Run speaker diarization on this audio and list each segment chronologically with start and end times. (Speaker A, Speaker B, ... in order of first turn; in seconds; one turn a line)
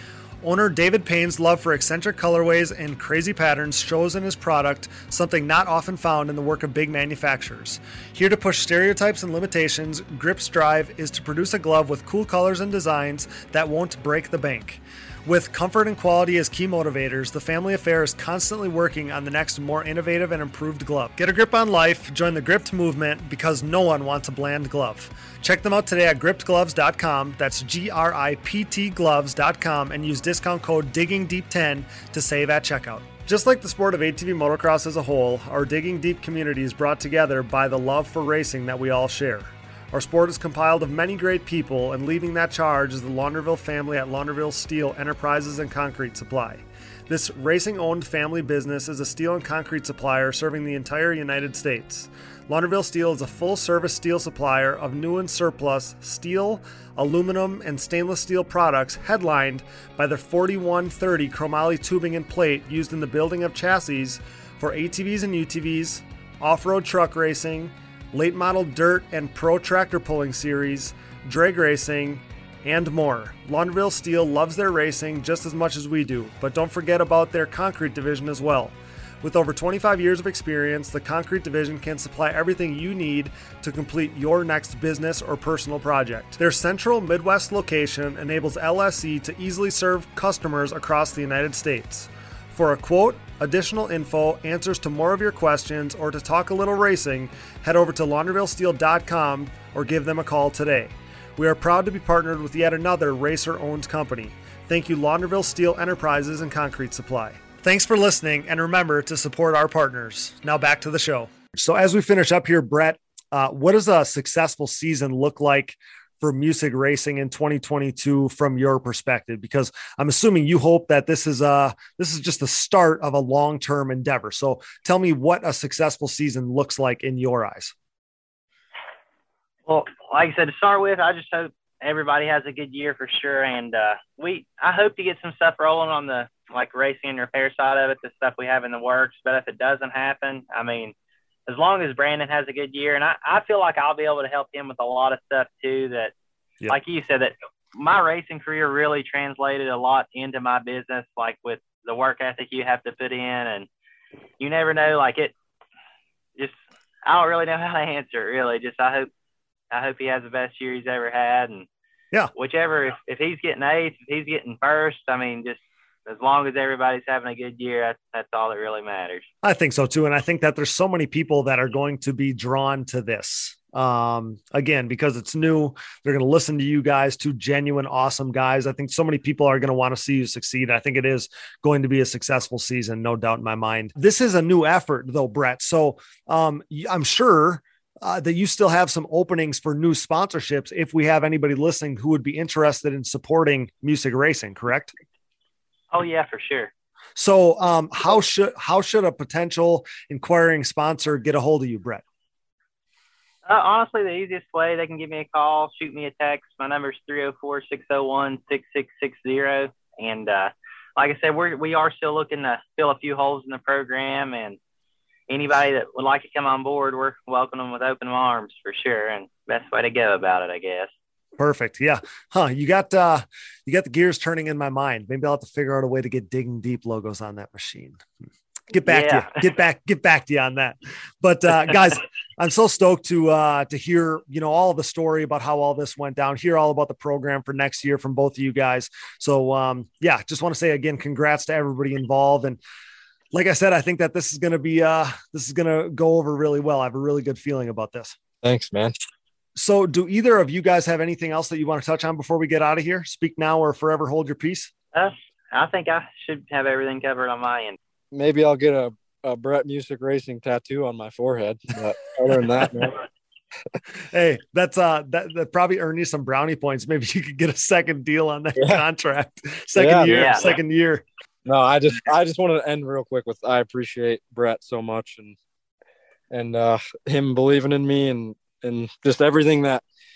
Speaker A: 0.4-127.7
Speaker B: 129.7-140.9
Speaker B: 141.5-146.1
Speaker B: 146.7-153.7
Speaker B: 154.4-155.3
Speaker B: 157.1-159.1
Speaker B: 159.7-161.7
Speaker B: 162.3-169.3
Speaker A: 169.4-194.9
Speaker B: 195.9-196.7
Speaker A: 197.2-202.0
Speaker B: 203.4-214.6
Speaker B: 215.3-220.9
Speaker A: 221.4-228.0
Speaker A: 228.7-242.6
Speaker B: 228.8-229.4
Speaker A: 243.3-248.2
Speaker C: 248.4-248.9
Speaker A: 249.6-254.7
Speaker B: 254.9-257.8
Speaker C: 258.1-263.0
Speaker A: 264.1-271.0
Speaker C: 268.6-268.8
Speaker C: 269.8-270.5
Speaker B: 270.1-270.5
Speaker C: 271.4-275.4
Speaker C: 276.3-279.8